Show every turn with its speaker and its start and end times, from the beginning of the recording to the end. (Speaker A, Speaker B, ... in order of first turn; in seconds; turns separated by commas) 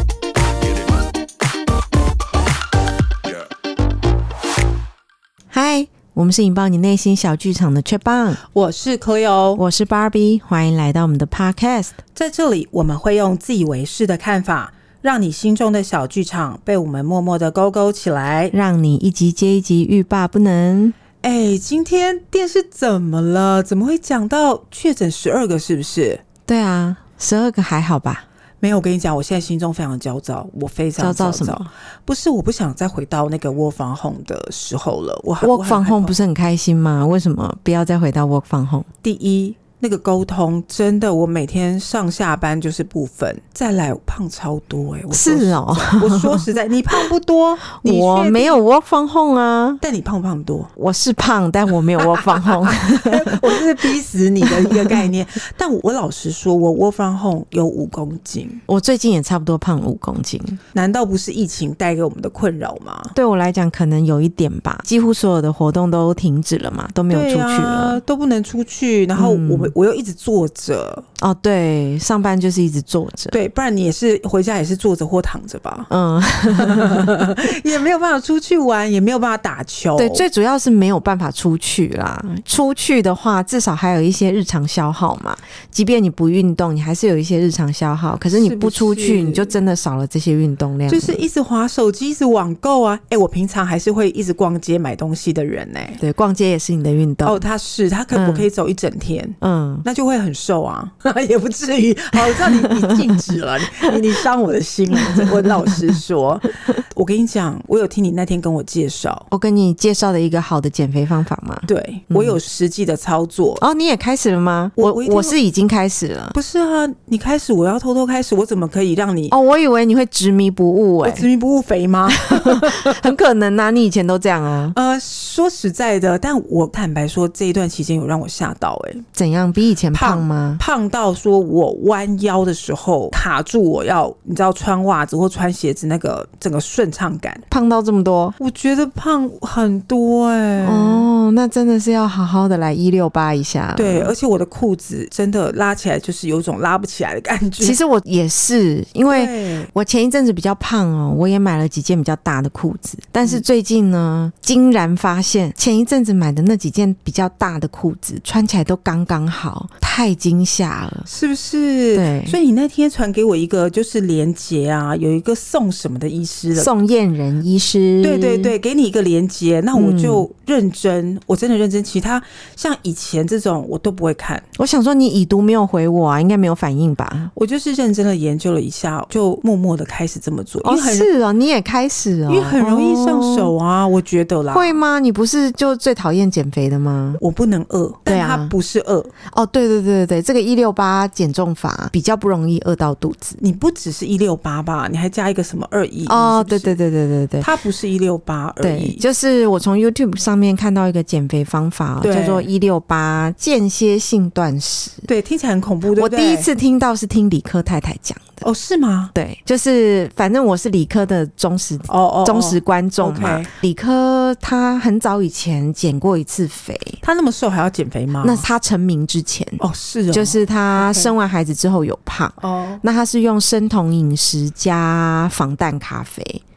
Speaker A: 5.5-8.4, Speaker B: 8.5-9.6, Speaker A: 9.6-12.0, Speaker B: 12.2-18.5, Speaker A: 18.5-20.9, Speaker B: 21.2-26.2, Speaker A: 26.5-28.2, Speaker B: 28.6-36.1, Speaker A: 31.0-31.7, Speaker A: 35.4-38.9, Speaker B: 39.0-48.6, Speaker A: 45.1-46.5, Speaker A: 47.7-49.8, Speaker B: 49.8-50.7, Speaker A: 50.8-53.6, Speaker B: 52.0-58.6, Speaker A: 54.4-55.0, Speaker A: 58.7-60.6, Speaker B: 60.7-63.1, Speaker A: 63.1-68.0, Speaker B: 67.1-71.1, Speaker A: 69.2-69.7, Speaker A: 71.2-73.4, Speaker B: 73.3-75.9, Speaker A: 75.9-77.2, Speaker B: 76.5-80.2, Speaker A: 80.0-91.2, Speaker B: 88.3-89.5, Speaker B: 90.9-96.0, Speaker A: 96.0-97.5, Speaker B: 97.2-109.3, Speaker A: 98.1-98.5, Speaker A: 99.4-99.8, Speaker A: 102.6-103.0, Speaker A: 105.0-105.8, Speaker A: 109.3-112.4, Speaker B: 111.7-113.6, Speaker A: 113.6-116.4, Speaker B: 114.8-115.3, Speaker B: 116.3-119.3, Speaker A: 119.3-121.3, Speaker B: 121.0-123.2, Speaker A: 122.1-124.8, Speaker B: 124.7-129.1, Speaker A: 129.2-130.6, Speaker B: 129.9-137.4, Speaker A: 137.5-138.4, Speaker B: 138.4-141.1, Speaker A: 140.6-144.1, Speaker B: 143.8-147.8, Speaker A: 147.6-161.1, Speaker B: 149.1-149.7, Speaker B: 161.1-166.7, Speaker A: 161.9-162.4, Speaker A: 166.5-168.6, Speaker B: 168.0-174.5, Speaker A: 169.7-170.3, Speaker A: 174.6-177.3, Speaker B: 177.3-181.1, Speaker A: 180.6-183.5, Speaker B: 182.3-184.8, Speaker A: 184.5-187.2, Speaker B: 187.2-189.1, Speaker A: 188.1-188.5, Speaker A: 189.3-193.4, Speaker B: 193.4-196.8, Speaker A: 196.1-197.5, Speaker B: 197.4-199.0, Speaker A: 198.6-205.1, Speaker B: 202.0-202.5, Speaker B: 205.1-206.5, Speaker A: 206.0-208.4, Speaker B: 208.4-209.1, Speaker A: 209.1-217.0, Speaker B: 211.9-213.5, Speaker B: 217.0-218.5, Speaker A: 218.2-226.4, Speaker B: 219.6-221.2, Speaker B: 222.4-222.8